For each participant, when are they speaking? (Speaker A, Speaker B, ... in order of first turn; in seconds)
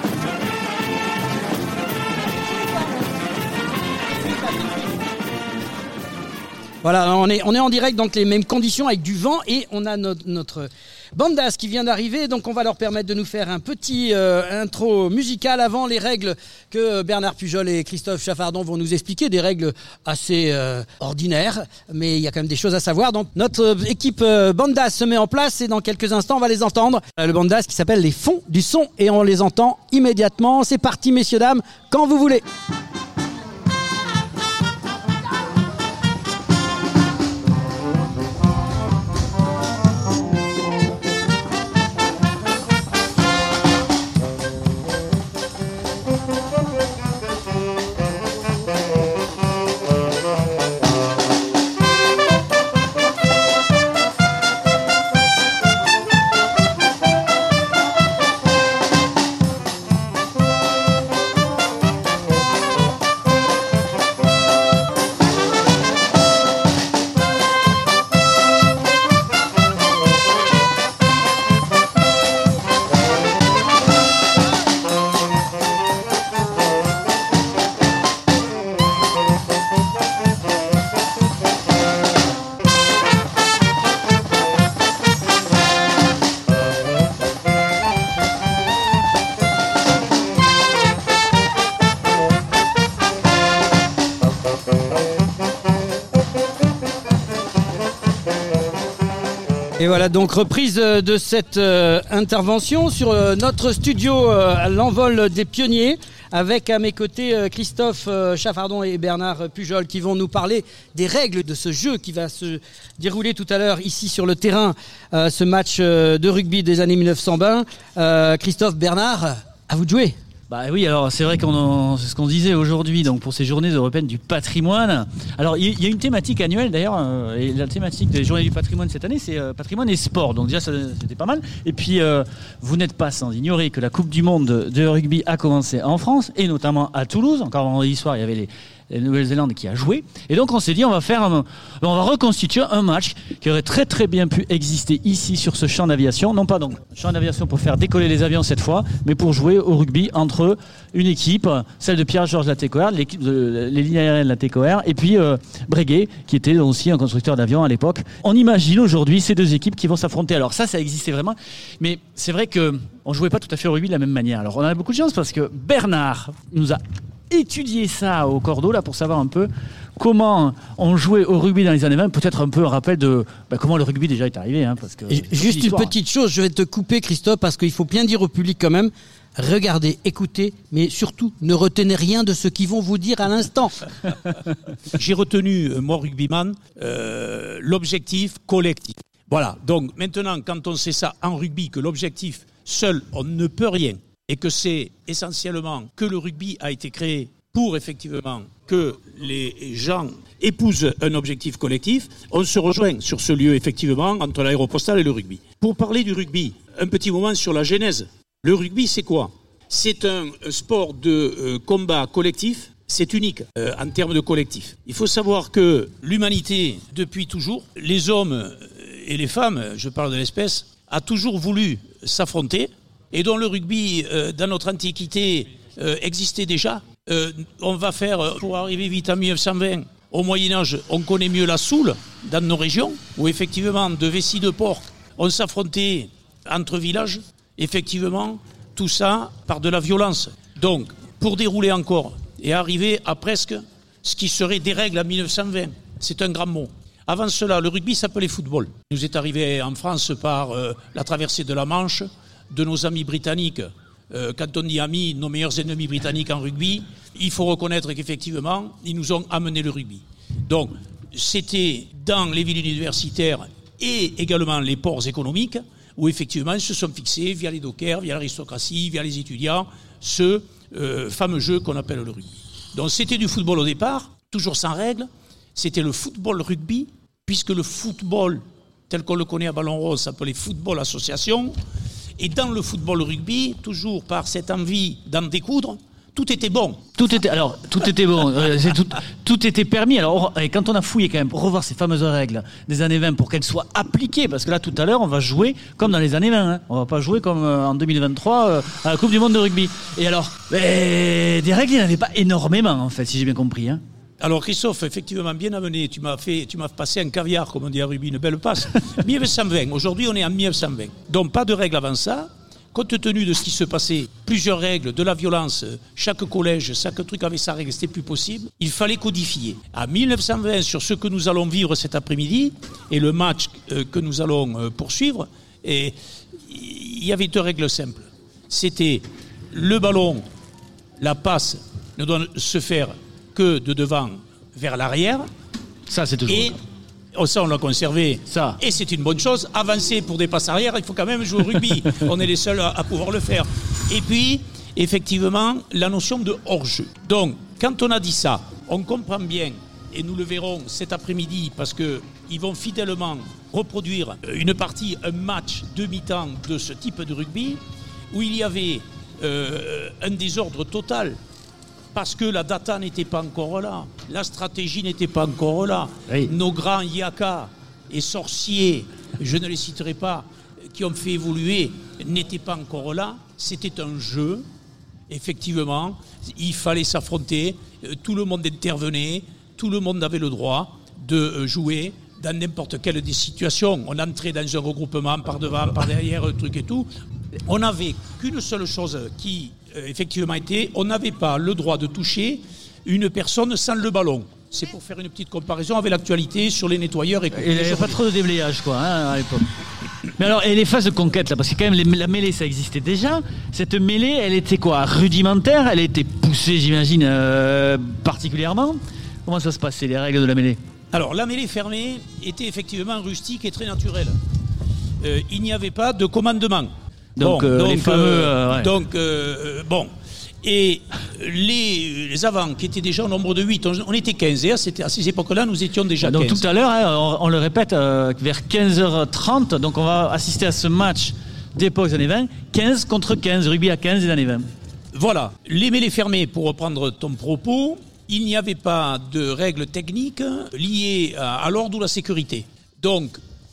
Speaker A: 6.8-32.5, 99.8-120.2, 175.1-183.8
Speaker B: 120.5-175.9, 287.0-303.8, 335.9-336.6, 338.3-338.6, 397.3-399.5, 400.2-410.6, 417.2-418.7, 426.0-434.4
Speaker C: 184.9-281.5, 282.2-286.9, 304.2-326.0, 326.5-330.2, 331.0-335.3, 336.3-336.6, 337.2-357.6, 358.1-361.2, 361.9-374.4, 375.1-386.9, 387.5-398.0, 410.9-414.1, 415.0-419.9, 420.4-426.4, 434.9-443.2